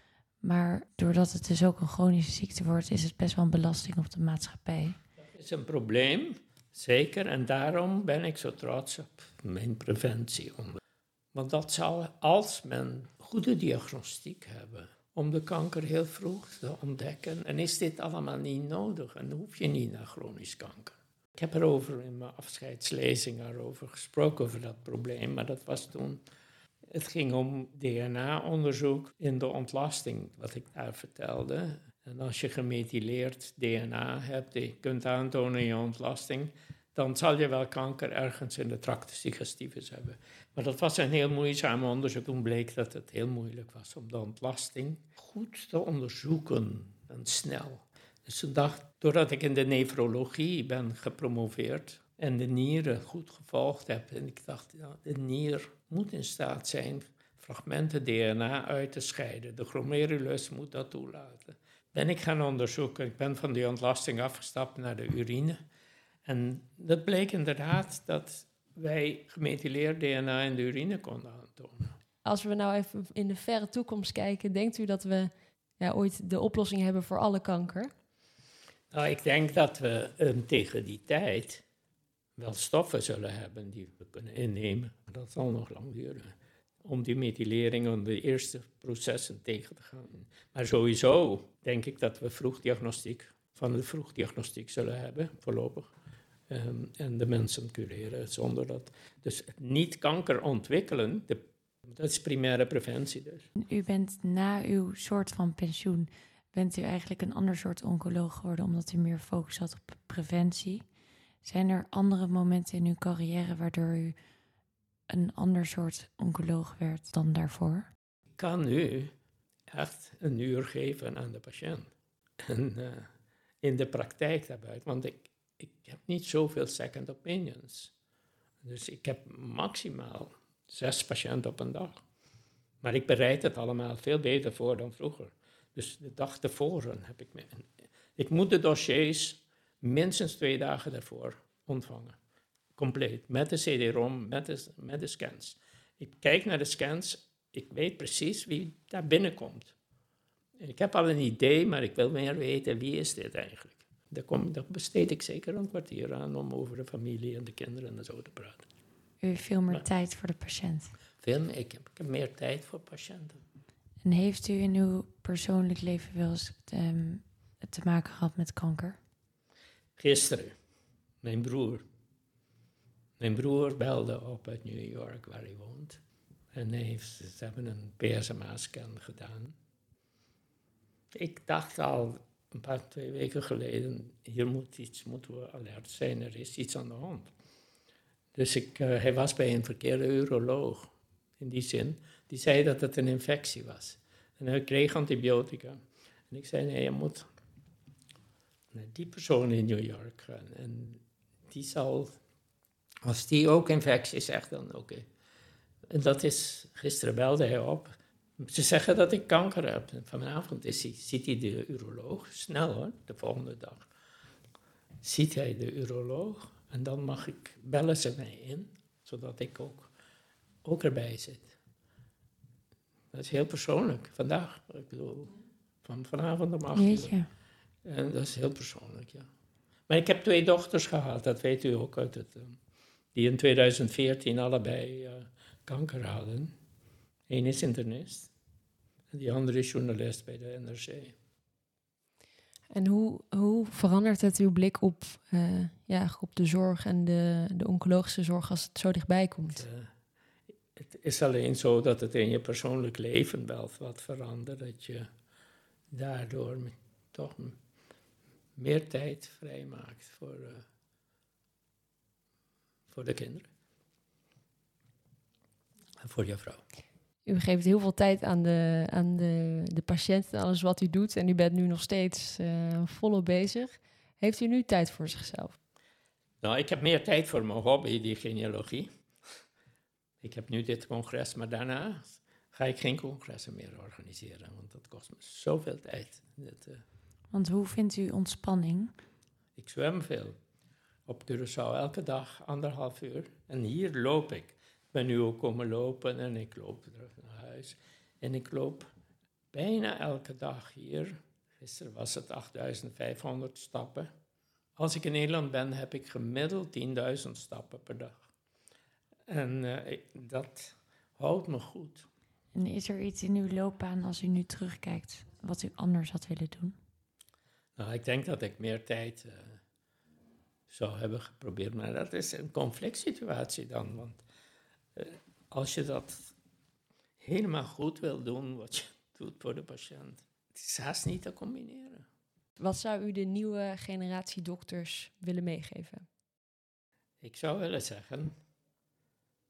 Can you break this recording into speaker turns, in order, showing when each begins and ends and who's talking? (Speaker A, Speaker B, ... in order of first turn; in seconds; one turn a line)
Speaker A: 0.4-5.0
Speaker B: 5.3-10.8
Speaker B: 11.3-26.2
Speaker B: 26.9-65.6
Speaker B: 66.2-72.0
Speaker C: 72.2-77.9
Speaker B: 78.9-81.6
Speaker B: 82.4-86.3
Speaker B: 86.8-95.9
Speaker B: 96.5-103.5
Speaker A: 103.6-110.9
Speaker A: 111.4-114.1
Speaker A: 115.1-117.9
Speaker B: 118.4-119.1
Speaker B: 119.7-123.1
Speaker B: 123.6-127.9
Speaker B: 128.6-132.0
Speaker B: 132.8-142.2
Speaker B: 142.8-149.7
Speaker B: 150.6-158.6
Speaker A: 159.2-160.9
Speaker B: 161.2-163.4
Speaker A: 164.0-169.0
Speaker B: 170.0-170.5
Speaker B: 171.2-171.8
Speaker B: 173.2-176.0
Speaker B: 176.5-179.5
Speaker B: 181.1-187.3
Speaker B: 188.3-195.8
Speaker B: 196.3-197.2
Speaker B: 198.7-202.2
Speaker B: 203.0-205.1
Speaker B: 205.9-213.9
Speaker B: 215.0-219.9
Speaker B: 220.6-221.5
Speaker B: 223.1-225.3
Speaker B: 225.8-227.1
Speaker A: 226.7-227.3
Speaker B: 227.8-229.3
Speaker B: 229.9-232.6
Speaker B: 233.1-236.5
Speaker B: 237.3-238.3
Speaker B: 239.1-241.1
Speaker C: 242.7-249.6
Speaker B: 249.5-249.9
Speaker B: 250.8-255.1
Speaker B: 255.9-257.6
Speaker B: 258.6-260.6
Speaker B: 262.9-263.5
Speaker B: 266.0-266.6
Speaker C: 267.2-275.6
Speaker B: 276.4-278.9
Speaker B: 280.2-286.8
Speaker A: 287.3-288.9
Speaker B: 289.6-290.4
Speaker B: 291.1-298.9
Speaker B: 299.5-304.1
Speaker B: 304.8-308.2
Speaker B: 309.3-312.1
Speaker A: 312.5-316.7
Speaker B: 317.8-319.6
Speaker B: 320.7-324.2
Speaker B: 324.9-326.3
Speaker B: 327.2-332.0
Speaker C: 332.6-336.1
Speaker B: 337.2-338.3